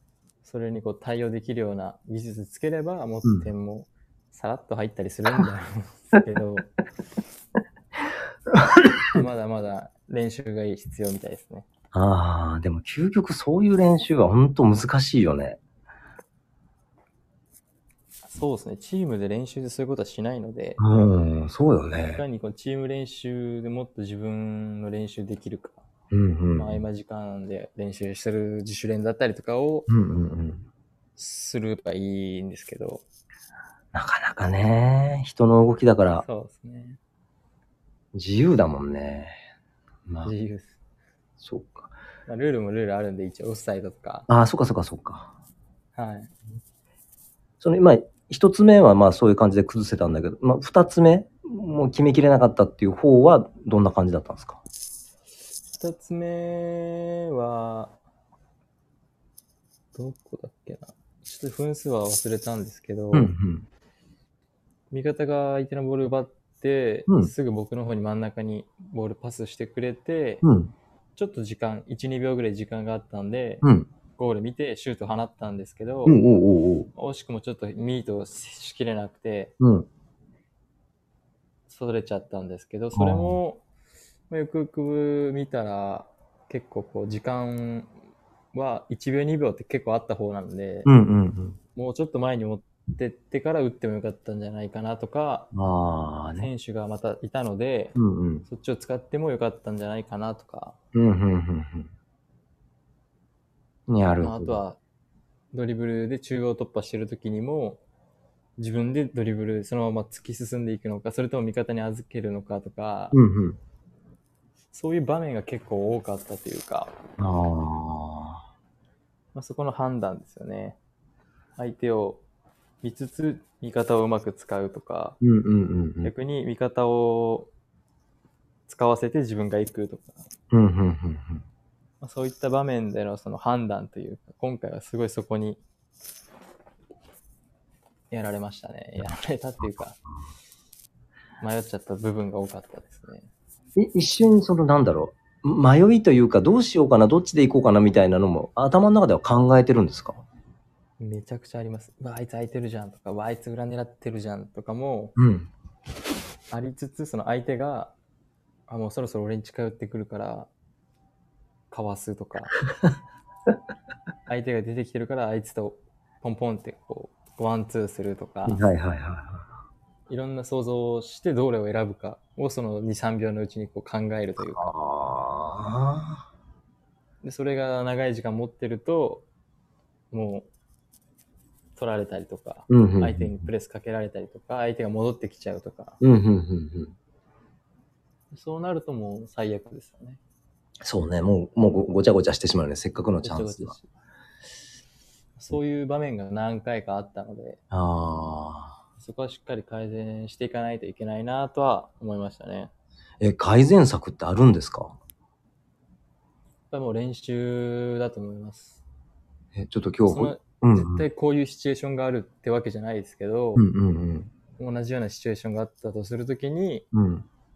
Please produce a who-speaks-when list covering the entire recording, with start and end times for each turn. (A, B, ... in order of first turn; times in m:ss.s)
0:00.4-0:06.7 A
0:03.2-0:03.5 B
0:09.1-0:11.7 A
0:11.9-0:15.6 B
0:18.3-0:21.1 A
0:20.8-0:22.2 B
0:22.1-0:25.8 A
0:26.1-0:26.8 B
0:26.5-0:29.9 A
0:29.9-0:30.7 B
0:31.2-0:33.0 A
0:33.9-0:36.2 B
0:36.1-0:37.0 A
0:38.1-0:39.4 B
0:40.1-0:40.3 B
0:40.2-0:40.7 A
0:41.4-0:41.9 B
0:42.3-0:44.3 A
0:44.3-0:45.3 B
0:46.0-0:46.3 A
0:47.6-0:54.6 B
0:55.8-0:58.0 A
0:59.9-1:03.3 A
1:03.1-1:03.7 B
1:04.9-1:10.4 A
1:07.1-1:07.3 B
1:10.4-1:10.7 B
1:11.2-1:13.6 A
1:13.6-1:13.9 B
1:14.2-1:16.2 A
1:16.1-1:16.9 B
1:16.9-1:19.6 A
1:19.6-1:19.9 B
1:21.7-1:23.6 A
1:22.9-1:23.4 B
1:24.3-1:27.9 A
1:28.5-1:30.9 A
1:30.8-1:31.6 B
1:31.8-1:35.5 A
1:35.5-1:36.5 B
1:36.4-1:38.0 A
1:38.0-1:38.4 B
1:38.5-1:40.8 A
1:40.9-1:41.9 B
1:43.9-1:44.6 B
1:44.2-1:44.8 A
1:45.5-1:47.8 A
1:48.6-1:53.2 A
1:53.1-1:53.6 B
1:54.7-1:56.9 A
1:57.2-1:58.4 B
1:59.4-2:00.8 A
2:01.6-2:02.2 A
2:02.8-2:05.2 A
2:05.2-2:06.1 B
2:06.0-2:07.5 A
2:08.7-2:10.3 A
2:10.5-2:11.4 B
2:12.0-2:15.6 A
2:18.1-2:20.0 A
2:21.4-2:23.3 A
2:23.8-2:30.2 B
2:31.0-2:35.2 A
2:35.2-2:35.5 B
2:36.5-2:37.9 A
2:38.7-2:40.5 A
2:41.7-2:42.5 A
2:44.3-2:48.6 A
2:48.4-2:49.5 B
2:50.1-2:54.7 A
2:54.4-2:56.2 B
2:57.2-2:59.3 A
3:00.1-3:00.5 A
3:01.7-3:06.0 A
3:02.7-3:03.5 B
3:06.0-3:06.9 B
3:08.3-3:10.2 A
3:10.8-3:13.7 B
3:13.2-3:13.9 A
3:15.4-3:17.6 A
3:17.7-3:18.8 B
3:19.0-3:22.7 A
3:23.2-3:25.0 B
3:26.7-3:28.8 A
3:29.6-3:31.1 B
3:30.1-3:33.7 A
3:33.6-3:34.3 B
3:34.6-3:36.8 A
3:36.9-3:37.3 B